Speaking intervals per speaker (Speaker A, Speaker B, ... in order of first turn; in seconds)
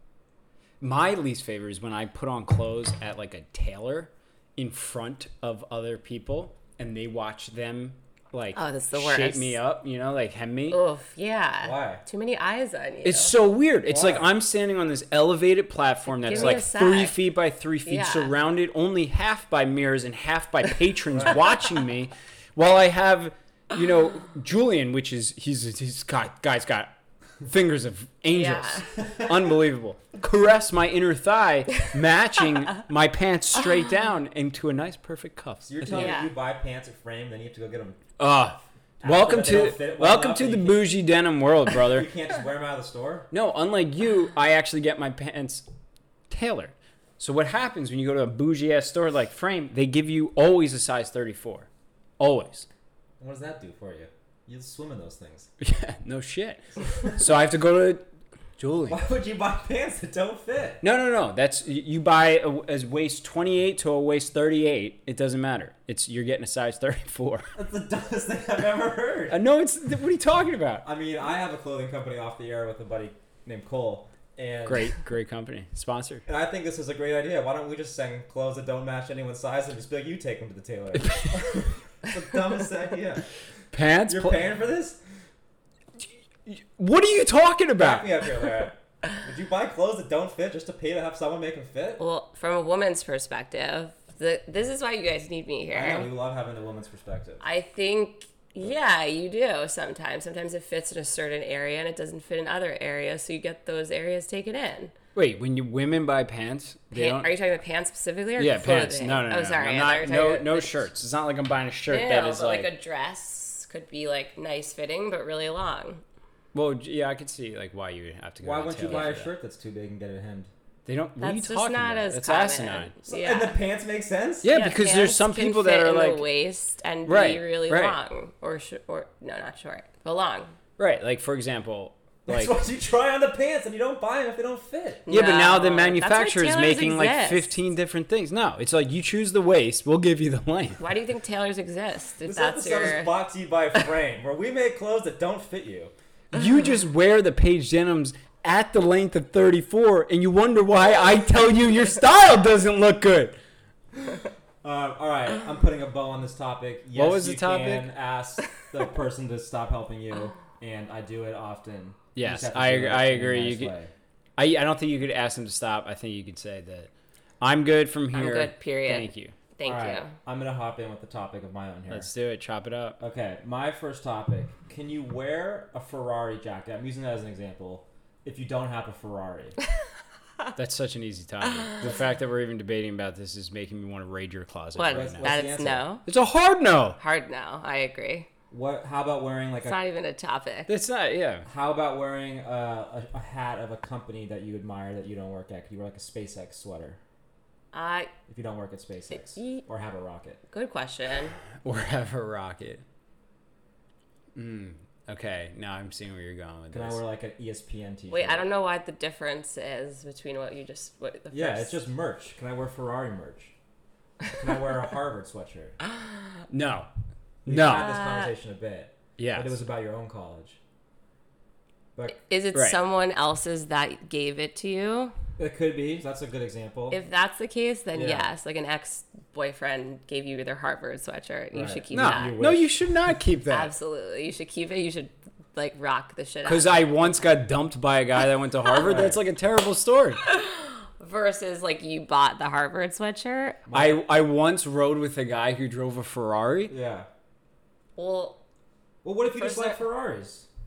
Speaker A: 0.8-10.8, 13.0-26.9, 27.4-36.1, 38.2-42.1, 43.3-45.6, 46.3-51.7, 52.2-52.7, 55.6-58.0, 58.6-59.0, 60.8-67.5, 69.3-70.8, 74.7-76.2, 80.9-81.7, 83.7-84.5, 86.5-88.3, 105.1-107.3, 108.4-112.7, 116.5-119.3, 120.8-123.0, 124.4-126.2, 127.0-128.0, 130.8-132.6, 135.1-140.8, 146.3-153.3, 156.9-157.9, 162.1-163.7, 164.4-166.9, 167.4-169.3, 171.9-173.0, 180.5-185.4, 186.1-187.0, 190.7-191.5, 201.6-202.8, 204.3-207.0, 216.5-216.9, 217.4-217.9, 219.2-219.6, 231.9-233.7, 236.4-240.2, 243.7-246.7
Speaker B: 8.5-9.6, 10.7-13.3, 16.1-17.2, 17.9-18.3, 28.3-28.9, 35.9-36.3, 92.0-96.1, 97.4-104.9, 106.9-110.8, 111.9-116.0, 121.2-123.6, 124.5-130.5, 135.1-137.5, 140.8-143.1, 168.1-170.1, 184.7-186.0, 187.0-188.3, 189.6-190.7, 197.7-198.1, 199.3-199.6, 200.5-201.4, 208.1-211.8, 217.7-218.3, 222.1-225.1, 226.9-232.4, 233.5-236.9, 240.2-243.6, 248.0-248.4, 249.2-249.8
Speaker C: 11.6-12.0, 13.9-14.3, 21.1-21.4, 29.0-29.4, 35.6-38.0, 39.0-40.9, 41.8-43.3, 53.2-55.5, 58.9-60.8, 67.5-69.4, 70.8-74.9, 76.3-83.2, 84.1-85.0, 87.8-92.0, 95.7-97.4, 118.4-120.5, 123.1-124.5, 132.2-135.0, 142.2-145.9, 154.6-163.9, 169.7-172.1, 173.0-179.6, 184.9-185.8, 188.5-189.8, 191.4-197.0, 198.3-200.4, 206.7-208.4, 211.3-213.5, 214.3-215.8, 217.4-220.6, 225.4-227.0, 227.9-228.2, 231.5-232.8, 238.8-239.2, 243.7-244.0, 246.7-247.1, 249.0-250.5